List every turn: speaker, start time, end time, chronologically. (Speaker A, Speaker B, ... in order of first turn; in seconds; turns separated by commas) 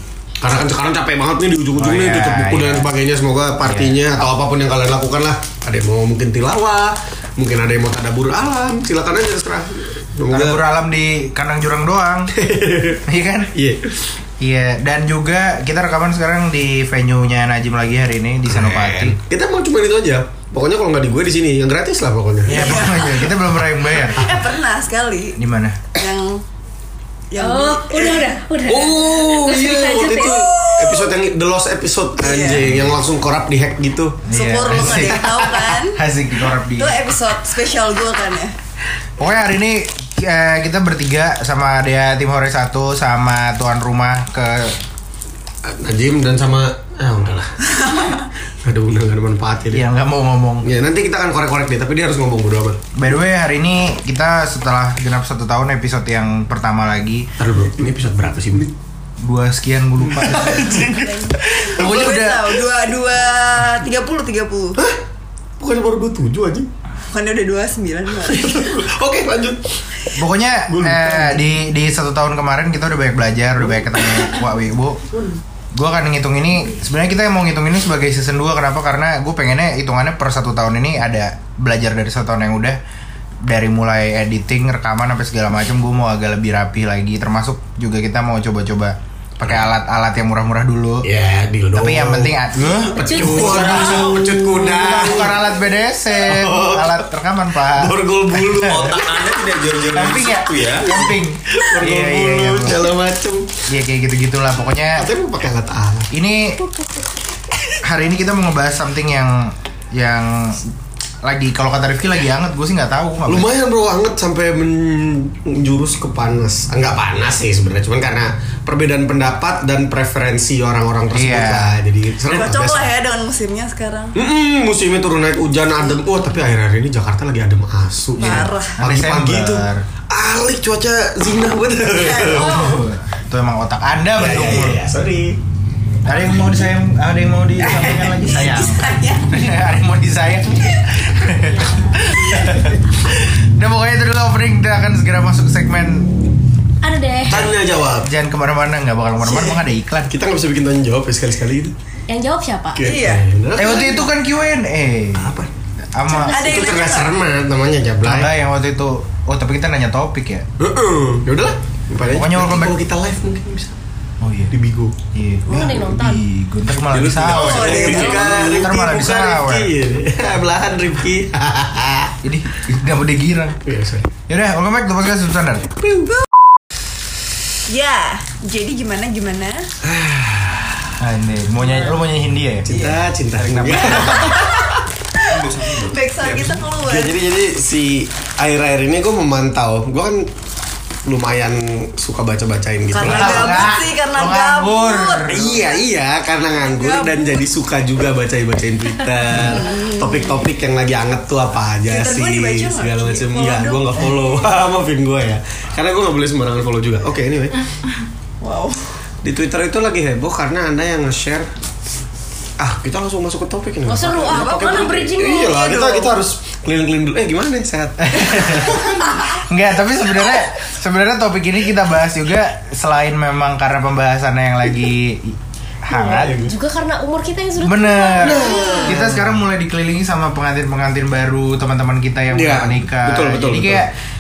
Speaker A: 0.4-10.6, Speaker B: 1.8-2.9, Speaker B: 3.6-4.2, Speaker B: 10.3-12.3, Speaker A: 12.3-13.0, Speaker B: 13.0-13.5, Speaker A: 13.5-14.0, Speaker B: 14.4-19.2, Speaker A: 18.5-23.3, Speaker B: 22.4-24.4, Speaker C: 22.5-23.3, Speaker C: 24.1-25.4, Speaker B: 25.4-25.8, Speaker C: 25.9-26.4, Speaker C: 27.3-28.4, Speaker D: 27.4-30.9, Speaker A: 28.6-35.6, Speaker C: 30.2-31.1, Speaker C: 32.2-32.7, Speaker B: 32.6-33.0, Speaker B: 34.3-35.3, Speaker C: 34.3-36.0, Speaker B: 35.9-37.0, Speaker C: 36.8-38.5, Speaker B: 39.2-44.8, Speaker A: 45.6-47.9, Speaker C: 47.8-48.2, Speaker A: 48.6-49.8, Speaker B: 49.7-50.7, Speaker A: 50.6-52.8, Speaker B: 53.0-57.3, Speaker A: 57.4-58.7, Speaker B: 59.2-60.9, Speaker A: 60.0-61.7, Speaker C: 60.7-64.8, Speaker B: 61.7-62.5, Speaker A: 65.6-66.7, Speaker C: 67.1-68.5, Speaker A: 68.2-70.2, Speaker B: 70.2-75.0, Speaker A: 70.7-71.5, Speaker B: 75.7-82.8, Speaker B: 83.5-91.1, Speaker A: 91.0-95.4, Speaker B: 91.7-94.1, Speaker D: 92.9-95.1, Speaker B: 94.7-98.9, Speaker A: 96.2-97.0, Speaker A: 97.7-99.0, Speaker E: 98.5-101.0, Speaker B: 99.9-102.9, Speaker A: 100.9-103.5, Speaker B: 103.7-105.1, Speaker A: 104.9-106.1, Speaker B: 106.1-106.6, Speaker B: 107.8-110.7, Speaker B: 111.2-113.5, Speaker A: 113.3-122.9, Speaker B: 121.1-121.8, Speaker C: 122.2-124.2, Speaker A: 124.2-132.8, Speaker C: 128.2-128.8, Speaker B: 128.3-129.8, Speaker C: 132.0-132.8, Speaker B: 132.3-134.9, Speaker A: 134.2-135.4, Speaker B: 136.1-146.1, Speaker C: 137.6-139.3, Speaker C: 142.1-142.6, Speaker D: 146.8-147.5, Speaker A: 147.3-148.1, Speaker B: 148.0-150.1, Speaker A: 149.2-151.7, Speaker D: 152.1-152.9, Speaker A: 152.7-154.1, Speaker C: 152.8-153.2, Speaker B: 153.6-155.3, Speaker A: 155.2-155.5, Speaker B: 155.9-156.5, Speaker C: 156.1-157.2, Speaker A: 156.2-158.3, Speaker B: 158.0-160.4, Speaker A: 160.6-163.8, Speaker B: 162.0-162.8, Speaker B: 164.2-164.6, Speaker A: 164.5-165.0, Speaker B: 165.1-169.7, Speaker D: 165.5-166.2, Speaker A: 165.5-166.2, Speaker A: 166.7-172.1, Speaker C: 167.3-168.8, Speaker D: 167.7-168.3, Speaker B: 172.2-173.6, Speaker A: 173.7-174.1, Speaker B: 174.3-175.7, Speaker A: 175.8-176.2, Speaker C: 177.7-179.7, Speaker A: 179.8-180.9, Speaker B: 181.0-182.9, Speaker A: 182.6-184.8, Speaker E: 182.7-184.4, Speaker C: 184.1-187.2, Speaker E: 185.2-186.7, Speaker A: 186.8-190.3, Speaker A: 191.1-193.7, Speaker C: 192.9-195.6, Speaker B: 193.0-195.6, Speaker A: 195.3-207.7, Speaker C: 196.6-197.4, Speaker C: 199.3-200.4, Speaker C: 201.9-204.5, Speaker C: 208.4-208.8, Speaker A: 209.2-211.5, Speaker A: 212.6-219.0, Speaker D: 213.9-215.7, Speaker C: 214.2-216.2, Speaker B: 218.0-226.4, Speaker D: 225.9-229.0, Speaker A: 226.1-226.6, Speaker B: 227.6-233.9, Speaker A: 228.2-229.4, Speaker A: 232.3-233.9